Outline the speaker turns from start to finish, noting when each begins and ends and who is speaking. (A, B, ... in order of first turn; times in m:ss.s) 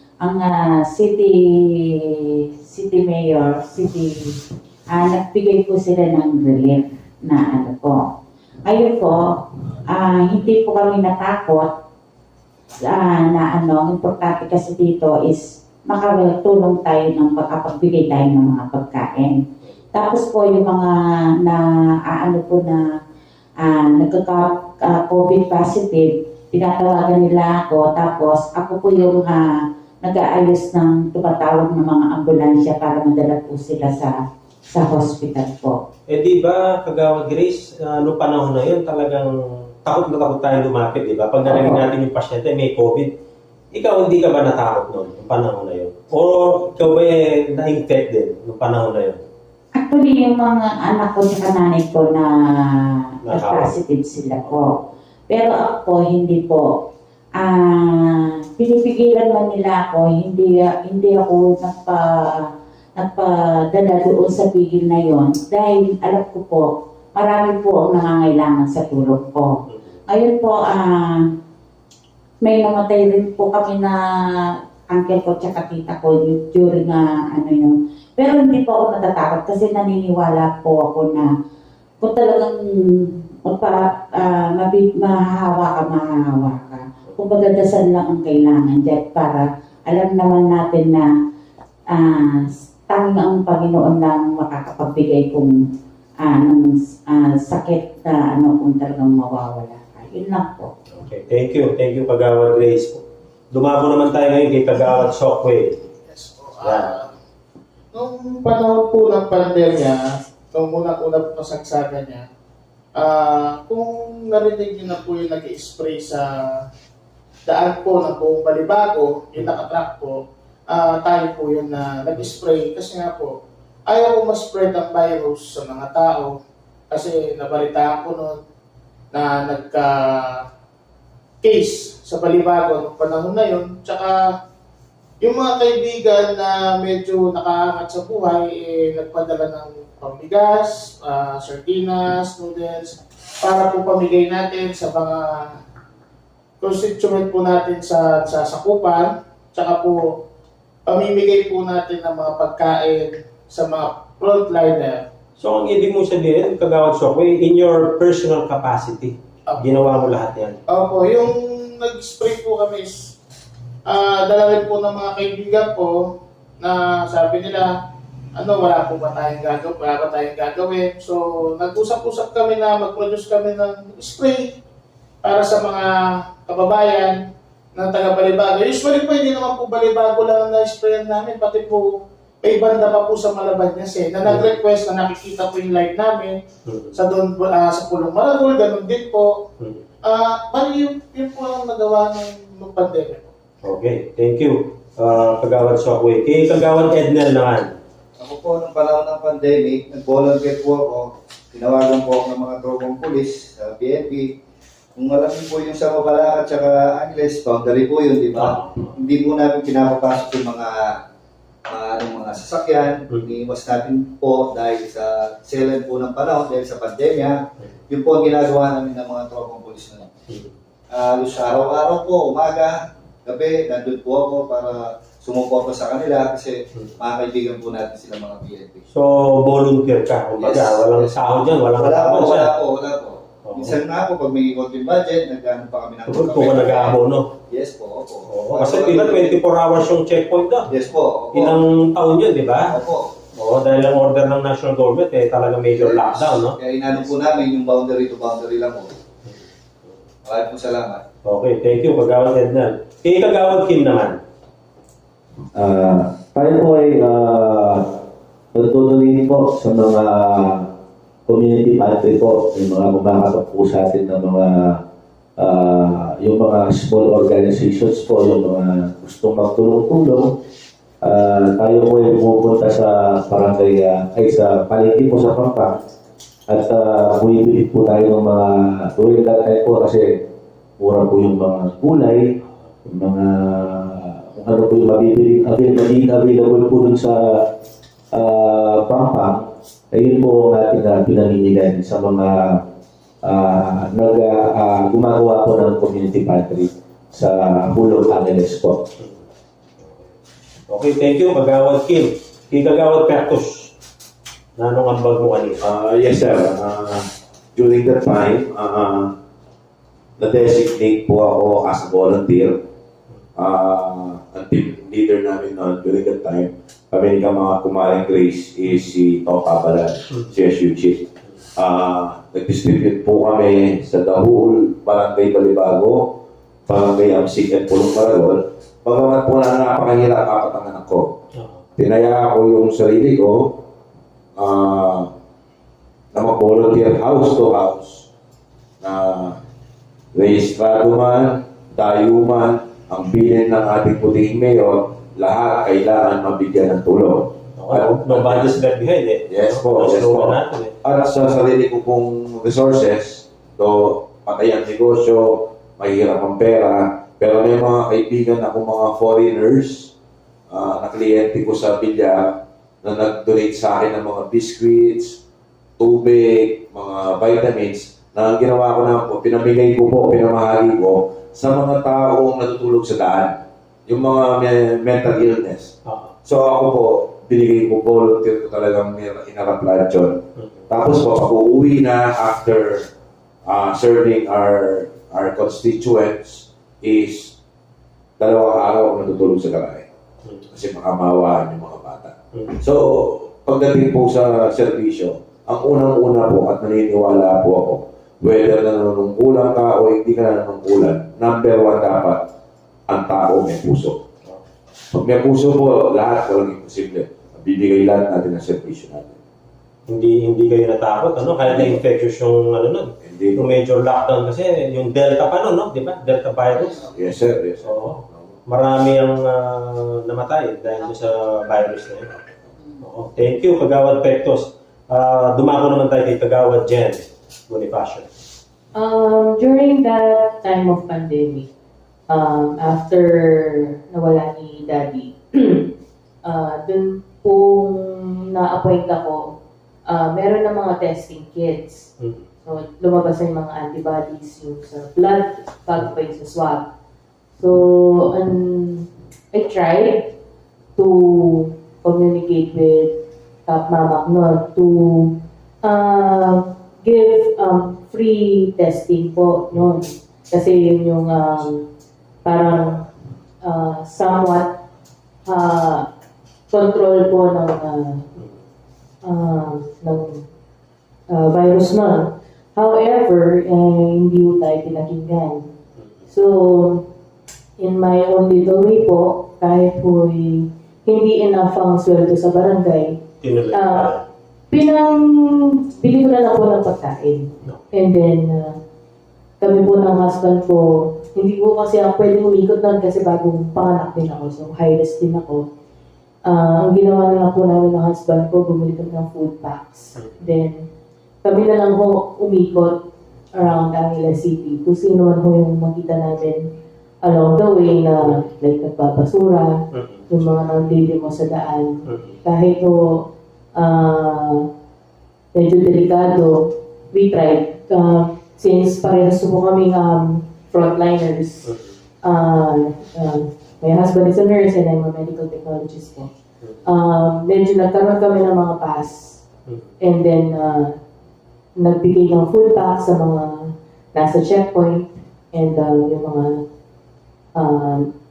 0:00.2-0:01.3 A
0:01.9-0:08.0 A
0:08.6-0:09.4 A
0:09.9-0:11.7 A
0:12.8-0:19.4 A
0:19.9-0:20.9 A
0:21.4-0:22.8 A
0:23.6-0:29.5 A
0:30.0-0:34.1 A
0:34.7-0:35.8 A
0:36.1-0:39.3 B
0:39.8-0:43.1 B
0:43.7-0:49.2 B
0:49.8-0:52.3 A
0:52.9-0:54.7 A
0:53.3-0:53.7 B
0:55.3-0:56.7 A
0:57.4-1:09.5 A
1:10.1-1:11.2 A
1:12.4-1:14.0 A
1:14.9-1:21.3 A
1:22.0-1:31.1 A
1:31.9-1:35.5 A
1:36.2-1:40.7 A
1:40.9-1:45.9 B
1:46.1-1:47.1 C
1:46.6-1:47.0 B
1:47.9-1:50.0 C
1:50.5-1:52.2 C
1:52.9-1:56.3 C
1:57.4-2:03.3 C
2:03.8-2:06.4 C
2:06.9-2:08.4 C
2:09.1-2:10.4 C
2:11.4-2:14.2 C
2:15.2-2:25.3 C
2:26.6-2:30.0 C
2:30.8-2:35.0 C
2:35.4-2:40.6 B
2:40.7-2:43.1 C
2:43.8-2:46.0 C
2:46.6-2:47.7 C
2:48.3-2:54.5 C
2:55.2-2:57.2 C
2:57.7-3:06.4 C
3:04.2-3:04.5 B
3:06.7-3:07.0 B
3:06.9-3:09.3 C
3:10.0-3:13.3 C
3:13.6-3:17.8 B
3:18.2-3:24.3 D
3:25.0-3:30.9 D
3:28.3-3:28.9 B
3:31.7-3:40.1 D
3:40.9-3:48.8 D
3:48.9-3:52.5 B
3:50.4-3:51.2 D
3:51.7-3:57.0 D
3:53.4-3:53.8 B
3:56.1-3:57.3 B
3:57.5-3:59.4 D
3:58.3-4:00.7 B
4:00.7-4:01.6 D
4:01.3-4:02.7 B
4:02.7-4:03.1 D
4:03.3-4:06.6 B
4:05.7-4:08.9 D
4:10.2-4:11.0 D
4:11.2-4:14.2 B
4:15.5-4:17.9 E
4:18.5-4:20.7 E
4:21.3-4:24.8 E
4:25.4-4:30.3 E
4:31.0-4:35.8 E
4:36.5-4:40.2 E
4:40.8-4:42.3 E
4:42.8-4:47.5 E
4:48.1-4:52.6 E
4:53.2-4:58.8 E
5:00.7-5:03.7 B
5:04.6-5:05.6 B
5:05.6-5:09.1 F
5:10.2-5:12.6 F
5:13.4-5:21.0 F
5:21.6-5:26.2 F
5:26.7-5:31.1 F
5:31.8-5:33.6 F
5:34.4-5:35.1 F
5:36.1-5:38.1 F
5:38.8-5:39.4 F
5:40.1-5:48.6 F
5:47.6-5:50.7 B
5:49.3-5:59.9 F
6:00.5-6:05.2 F
6:05.8-6:15.7 F
6:16.2-6:22.9 F
6:23.4-6:27.3 F
6:28.2-6:29.8 F
6:30.5-6:42.2 F
6:42.9-6:44.0 F
6:44.9-6:49.2 F
6:49.9-6:56.8 B
6:51.5-6:51.8 F
6:53.0-6:53.4 F
6:56.9-6:57.6 F
6:57.6-7:02.1 B
7:02.8-7:08.1 B
7:08.7-7:11.5 G
7:12.1-7:15.7 G
7:16.2-7:19.3 G
7:19.8-7:21.9 G
7:22.4-7:26.6 G
7:27.4-7:30.1 G
7:30.8-7:32.9 G
7:33.4-7:41.6 G
7:42.2-7:42.8 G
7:43.4-7:44.6 G
7:45.2-7:45.9 G
7:46.5-7:48.0 G
7:49.0-7:50.2 G
7:51.1-7:55.5 G
7:56.1-7:56.9 G
7:57.6-8:03.0 G
8:03.2-8:04.0 B
8:03.5-8:03.9 G
8:04.5-8:08.5 G
8:09.4-8:15.4 G
8:16.2-8:20.6 G
8:20.0-8:20.2 B
8:21.2-8:22.8 G
8:23.3-8:26.5 G
8:27.0-8:29.6 G
8:29.7-8:30.0 B
8:30.1-8:32.8 G
8:31.8-8:32.2 B
8:33.5-8:34.4 G
8:35.3-8:41.5 G
8:41.4-8:41.7 B
8:42.0-8:46.1 G
8:46.6-8:49.2 G
8:49.8-8:50.7 G
8:51.6-8:56.4 G
8:57.3-8:57.9 G